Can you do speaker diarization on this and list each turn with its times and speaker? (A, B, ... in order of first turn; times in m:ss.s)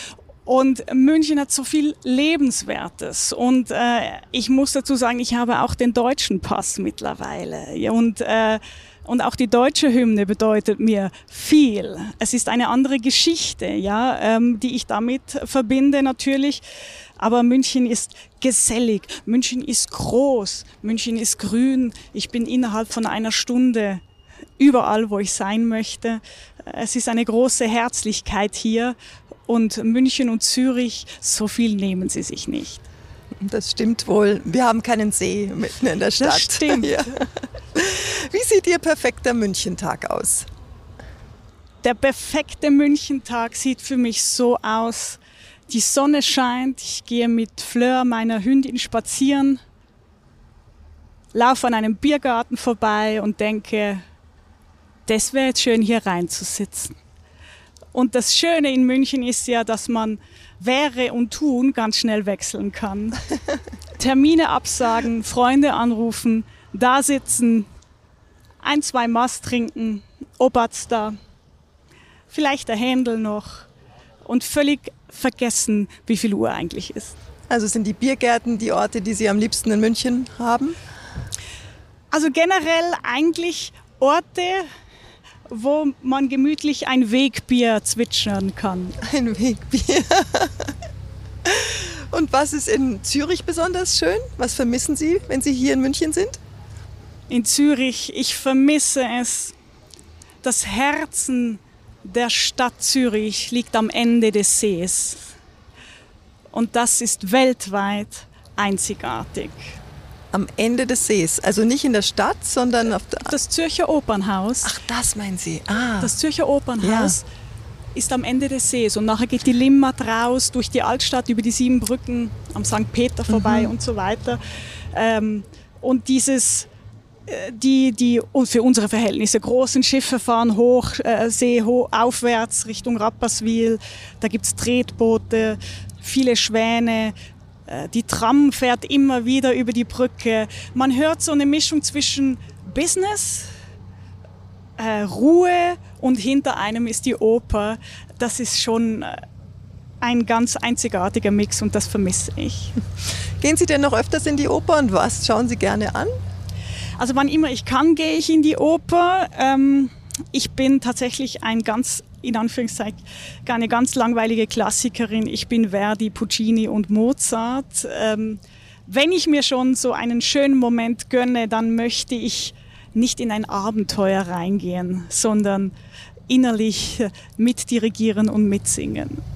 0:00.4-0:16.6 A
0:17.2-0:24.0 A
0:24.6-0:29.0 A
0:29.5-0:32.8 A
0:33.4-0:40.5 B
0:36.2-0:36.9 A
0:41.8-0:49.6 A
0:51.3-0:54.0 A
0:55.1-0:57.0 A
0:57.9-1:03.2 A
1:03.9-1:07.7 A
1:08.6-1:11.2 A
1:12.3-1:13.7 A
1:14.2-1:17.2 A
1:17.5-1:20.8 B
1:22.1-1:24.7 A
1:25.5-1:28.9 A
1:29.0-1:30.7 B
1:31.4-1:36.4 B
1:37.3-1:39.5 A
1:40.4-1:45.2 A
1:46.5-1:49.8 A
1:50.3-1:53.3 B
1:53.2-1:54.7 A
1:54.6-1:56.1 B
1:56.0-1:57.2 A
1:56.8-1:57.2 B
1:57.9-2:04.4 A
2:03.3-2:03.7 B
2:04.9-2:06.7 A
2:07.3-2:17.1 A
2:17.7-2:23.5 A
2:24.8-2:29.2 A
2:30.0-2:32.8 A
2:33.4-2:36.1 B
2:37.0-2:55.7 A
2:56.3-2:59.2 A